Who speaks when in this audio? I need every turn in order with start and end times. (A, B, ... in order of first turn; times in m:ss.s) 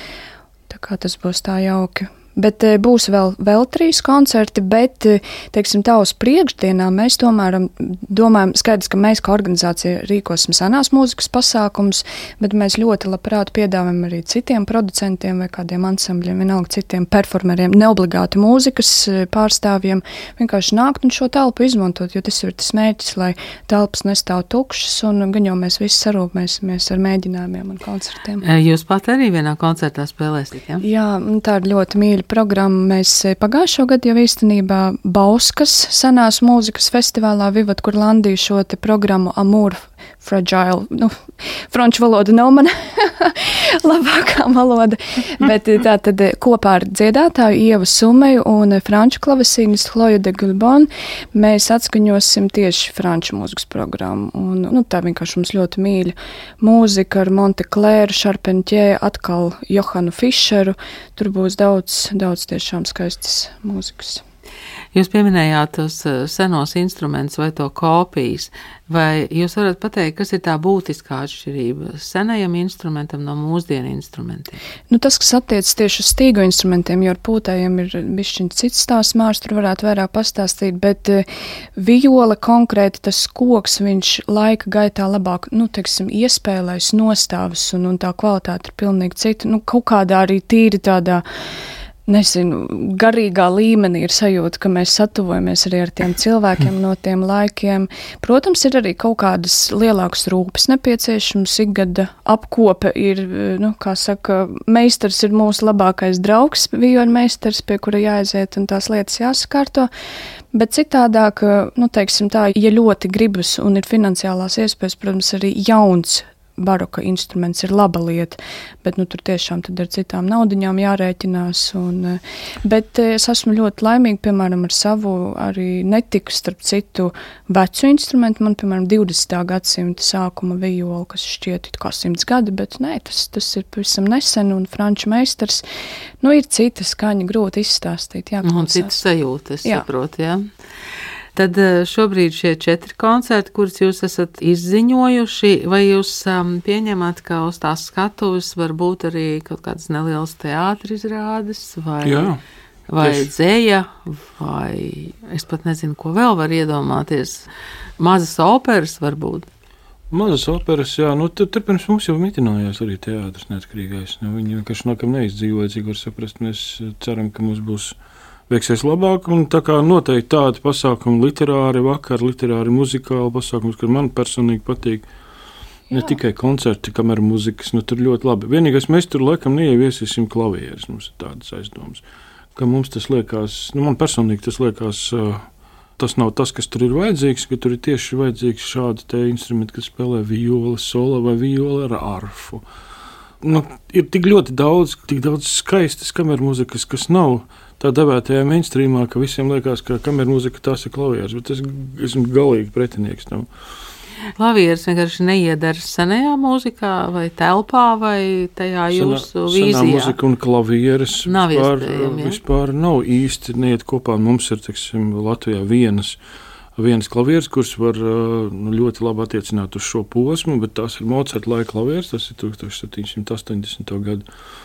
0:00.7-0:28.4 A
0:28.4-0:30.8 B
0:30.8-1:04.2 A
1:04.9-1:14.6 B
1:14.9-1:31.2 A
1:32.1-1:49.9 A
1:50.5-2:15.6 A
2:16.2-2:19.0 A
2:18.4-2:20.4 B
2:21.3-2:32.3 B
2:32.0-2:32.4 C
2:32.9-2:39.5 B
2:33.0-2:33.3 C
2:40.1-2:47.9 C
2:48.5-2:55.1 C
2:55.9-3:02.0 C
3:02.6-3:05.4 C
3:06.0-3:12.6 C
3:13.4-3:23.5 C
3:24.4-3:30.2 B
3:28.9-3:36.2 C
3:31.2-3:32.4 B
3:36.8-3:44.2 C